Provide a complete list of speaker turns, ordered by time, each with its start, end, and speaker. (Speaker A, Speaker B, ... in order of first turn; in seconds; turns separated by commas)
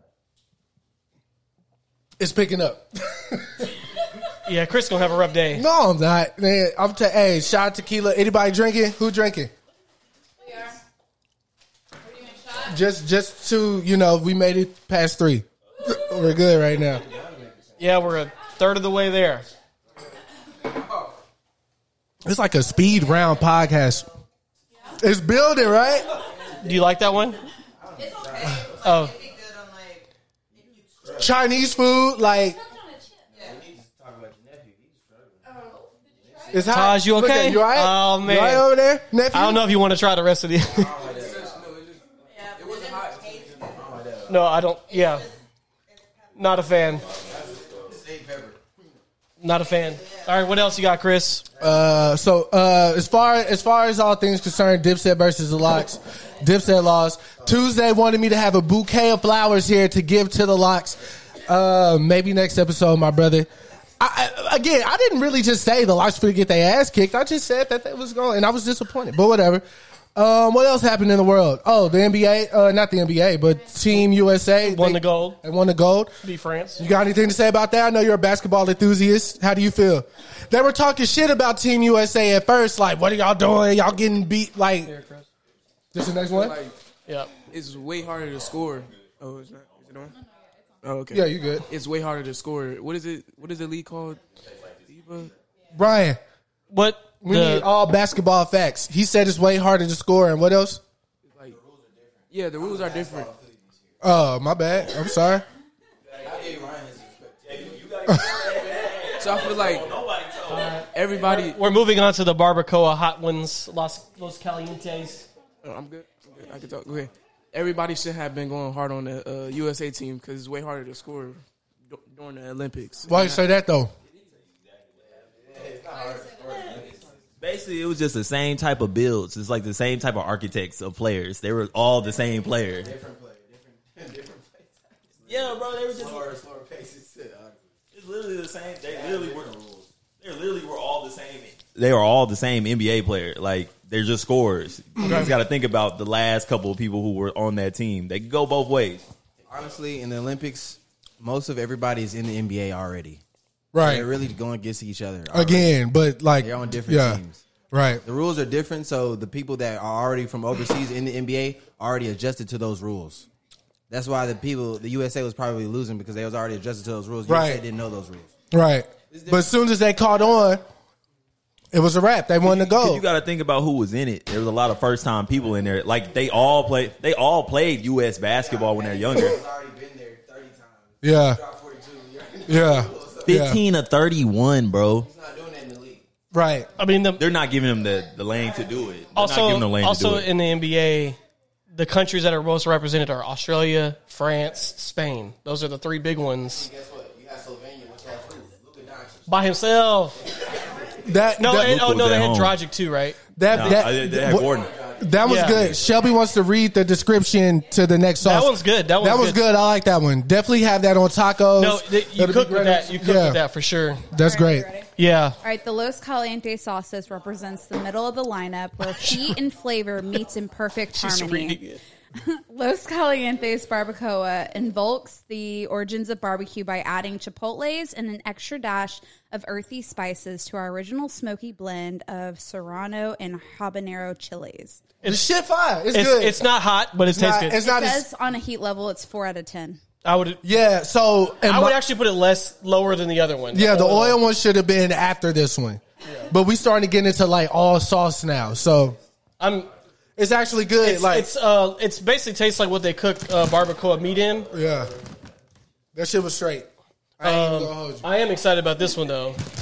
Speaker A: 2.2-3.8, Speaker B: 4.5-5.7, Speaker A: 5.5-9.5, Speaker C: 10.4-10.8, Speaker C: 12.0-12.8, Speaker A: 12.7-17.1, Speaker D: 16.9-18.1, Speaker B: 17.8-19.5, Speaker A: 22.2-24.1, Speaker A: 25.0-26.1, Speaker B: 26.6-27.4, Speaker D: 27.8-28.8, Speaker E: 28.0-31.2, Speaker B: 28.8-29.1, Speaker D: 30.5-31.4, Speaker A: 31.2-32.6, Speaker C: 32.3-33.3, Speaker D: 33.3-35.5, Speaker E: 33.3-33.6, Speaker E: 35.9-36.8, Speaker D: 36.1-36.6, Speaker A: 36.5-39.7, Speaker B: 36.7-38.7, Speaker B: 39.3-40.9, Speaker D: 40.6-41.7, Speaker F: 41.0-43.7, Speaker E: 42.2-43.7, Speaker D: 43.6-44.4, Speaker B: 44.3-45.3, Speaker E: 44.9-47.0, Speaker B: 46.4-47.1, Speaker D: 47.1-48.6, Speaker G: 47.1-47.8, Speaker B: 49.4-51.5, Speaker E: 49.6-50.5, Speaker A: 51.6-76.2, Speaker B: 74.6-75.4, Speaker B: 76.2-76.8, Speaker A: 76.8-84.9, Speaker B: 84.8-85.3, Speaker A: 85.9-86.6, Speaker F: 86.3-86.8, Speaker B: 87.1-87.3, Speaker F: 87.5-90.2, Speaker G: 88.7-89.9, Speaker F: 90.8-94.2, Speaker A: 91.1-91.7, Speaker G: 94.4-94.8, Speaker F: 94.9-95.3, Speaker A: 95.7-96.2, Speaker B: 96.7-97.7, Speaker A: 97.2-100.8, Speaker F: 101.3-101.6, Speaker D: 101.5-104.0, Speaker F: 102.3-103.3, Speaker A: 104.0-105.5, Speaker G: 106.1-106.4, Speaker D: 106.1-107.8, Speaker G: 107.5-110.8, Speaker F: 109.2-109.9, Speaker B: 110.5-115.3, Speaker F: 110.9-111.6, Speaker F: 115.6-123.4, Speaker A: 123.1-123.9, Speaker G: 124.1-125.4, Speaker D: 125.1-127.2, Speaker E: 126.0-126.9, Speaker G: 127.4-132.9, Speaker D: 132.7-137.7, Speaker G: 135.3-136.4, Speaker G: 137.9-139.6, Speaker D: 138.9-139.9, Speaker G: 140.2-149.1, Speaker A: 145.0-145.3, Speaker B: 145.0-145.3, Speaker D: 149.4-153.2, Speaker A: 153.7-154.1, Speaker D: 153.8-155.7, Speaker A: 155.3-158.0, Speaker D: 156.4-157.4, Speaker D: 158.0-163.3, Speaker D: 163.9-168.3, Speaker A: 167.3-167.6, Speaker A: 168.5-170.6, Speaker D: 169.1-169.4, Speaker A: 171.7-173.0, Speaker G: 172.4-179.4, Speaker D: 178.3-183.5, Speaker A: 181.0-181.4, Speaker A: 182.5-183.6, Speaker G: 183.3-185.1, Speaker D: 185.0-186.1, Speaker A: 186.3-186.7, Speaker B: 186.8-187.2, Speaker G: 187.2-190.3, Speaker B: 189.2-191.2, Speaker B: 191.7-196.7, Speaker D: 196.5-199.5, Speaker B: 199.3-200.2, Speaker D: 200.2-201.2, Speaker A: 201.0-201.8, Speaker B: 201.4-203.2, Speaker G: 201.5-202.6, Speaker A: 203.4-213.4, Speaker G: 203.5-204.8, Speaker D: 203.6-205.5, Speaker B: 205.2-205.6, Speaker B: 208.2-209.4, Speaker B: 211.6-214.1, Speaker A: 214.1-214.7, Speaker C: 214.2-214.9, Speaker B: 215.0-215.4, Speaker C: 215.4-234.9, Speaker B: 221.0-221.8, Speaker A: 235.0-236.5, Speaker B: 235.9-237.6, Speaker A: 237.0-238.1, Speaker C: 237.6-239.8, Speaker B: 240.0-240.4, Speaker A: 240.4-241.8, Speaker B: 241.4-244.2, Speaker A: 243.5-249.0, Speaker B: 246.1-246.3, Speaker B: 249.4-249.7, Speaker A: 250.2-251.3, Speaker B: 250.8-254.5, Speaker A: 254.5-254.9, Speaker A: 255.9-256.7, Speaker A: 257.2-258.1, Speaker B: 257.2-259.4